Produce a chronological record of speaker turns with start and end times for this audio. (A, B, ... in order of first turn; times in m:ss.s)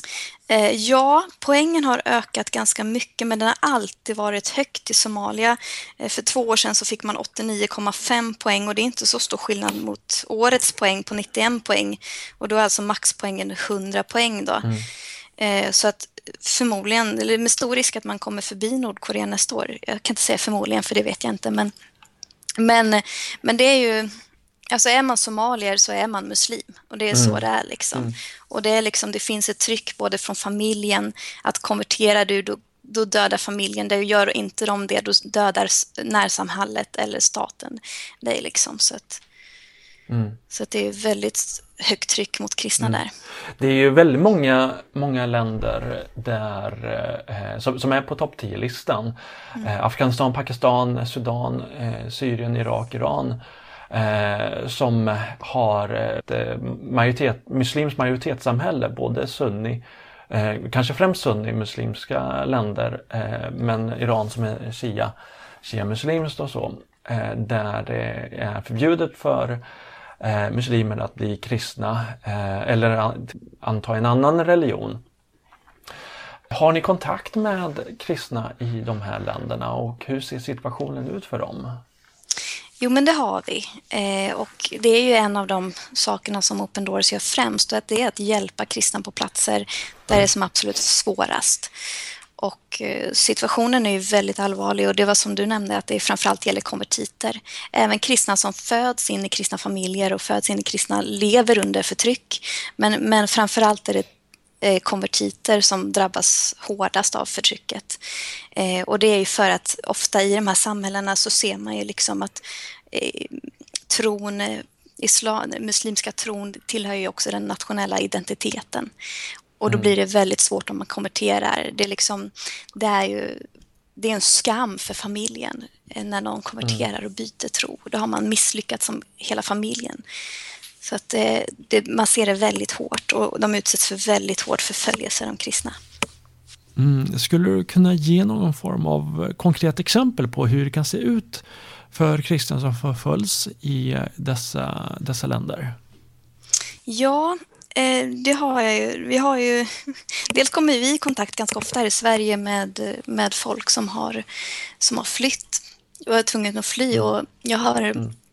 0:00.5-0:14.7 A
0:15.4-0:21.7 A
0:22.6-0:24.2 A
0:24.7-0:39.2 A
0:27.1-0:27.4 B
0:40.1-0:40.4 B
0:40.5-0:43.1 A
0:43.6-0:53.4 B
0:53.9-1:05.1 B
1:05.6-1:09.6 B
1:10.2-1:15.0 B
1:16.5-1:21.8 B
1:22.8-1:31.7 A
1:32.4-1:44.1 A
1:44.6-1:48.0 A
1:48.6-1:58.9 A
1:59.6-2:03.4 A
1:59.7-1:59.9 B
2:04.0-2:10.0 A
2:10.8-2:15.8 A
2:16.8-2:25.8 B
2:26.9-2:34.2 A
2:34.8-2:38.1 A